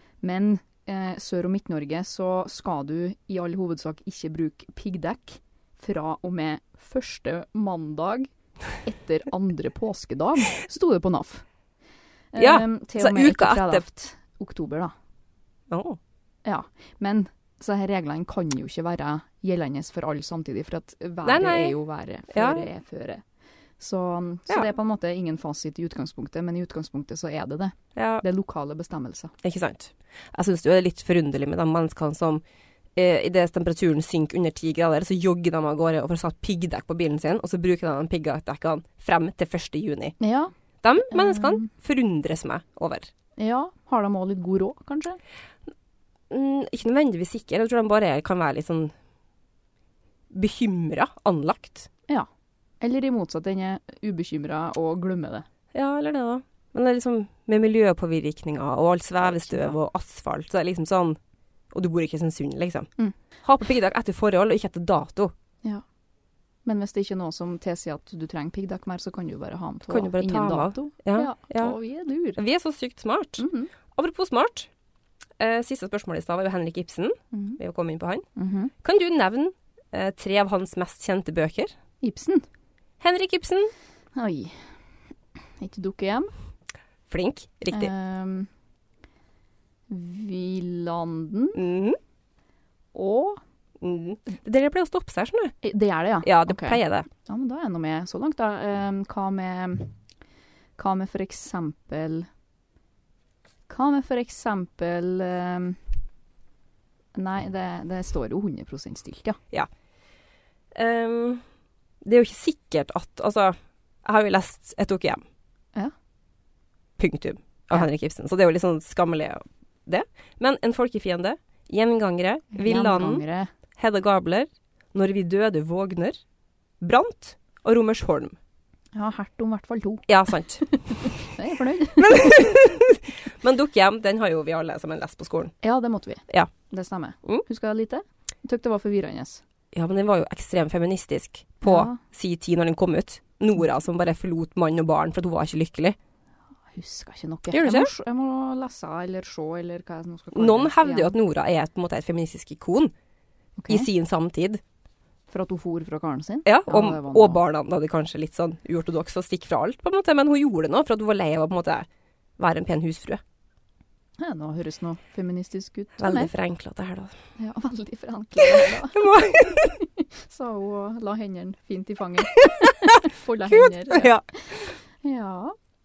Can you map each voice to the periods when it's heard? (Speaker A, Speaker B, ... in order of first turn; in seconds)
Speaker A: 0.2-11.5, 12.3-14.9, 16.4-23.2, 23.8-29.3, 40.2-40.5, 41.1-41.7, 43.4-45.2, 52.8-55.5, 59.2-59.8, 66.7-72.4, 73.4-73.7, 77.3-77.6, 78.3-78.7, 82.0-82.5, 84.2-84.8, 85.6-86.3, 87.7-88.5, 89.9-91.6, 92.9-93.4, 95.6-99.9, 100.8-102.3, 103.7-105.8, 107.2-109.4, 122.5-123.5, 128.9-132.6, 135.6-139.4, 141.6-142.0, 146.7-151.2, 153.6-153.9, 155.3-157.4, 164.2-166.3, 167.4-175.6
Speaker B: 12.4-13.9, 15.7-16.0, 21.2-21.8, 22.3-22.7, 27.9-28.2, 29.4-32.4, 33.0-40.2, 40.8-43.1, 46.3-48.9, 50.3-51.9, 55.7-61.2, 61.7-62.9, 63.4-65.3, 69.9-71.8, 72.4-74.7, 75.4-78.3, 78.8-81.7, 83.0-83.7, 87.1-87.9, 91.5-92.0, 93.8-95.5, 96.2-97.1, 110.7-111.4, 112.0-115.2, 117.0-123.2, 123.8-126.2, 126.8-128.4, 130.1-130.6, 132.0-135.5, 139.7-146.0, 147.5-147.9, 150.3-152.9, 153.7-154.6, 156.4-161.9, 162.4-163.2, 166.0-167.2, 168.4-169.8, 172.3-174.2